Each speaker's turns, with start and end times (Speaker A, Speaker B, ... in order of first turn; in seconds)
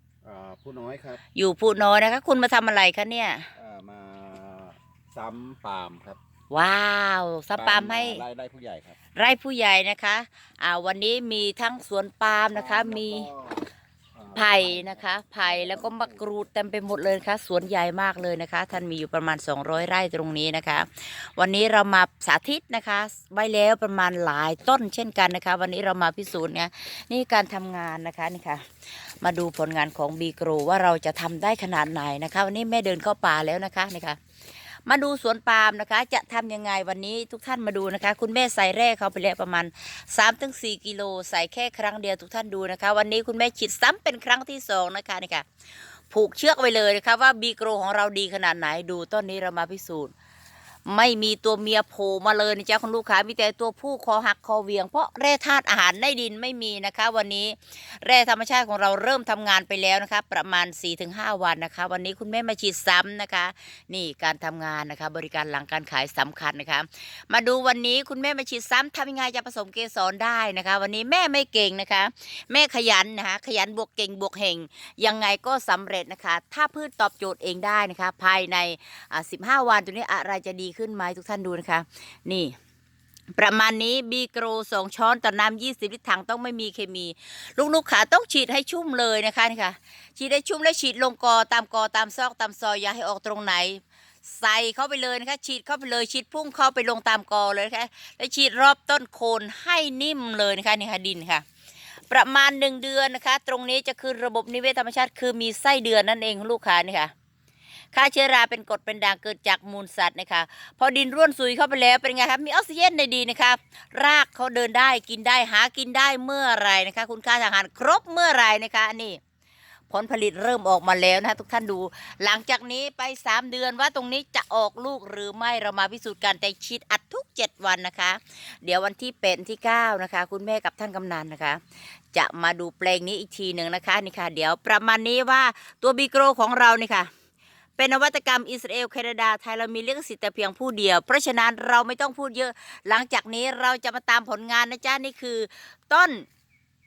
Speaker A: 0.2-1.2, 3.5-6.2, 7.5-9.0, 12.5-16.3
Speaker B: 1.3-3.5, 6.5-8.2, 9.2-13.3, 14.3-28.6, 29.2-34.2, 34.9-45.5, 46.1-50.1, 50.9-82.5, 83.3-101.4, 102.1-107.1, 107.9-119.2, 119.9-131.6, 132.1-137.1, 137.8-146.2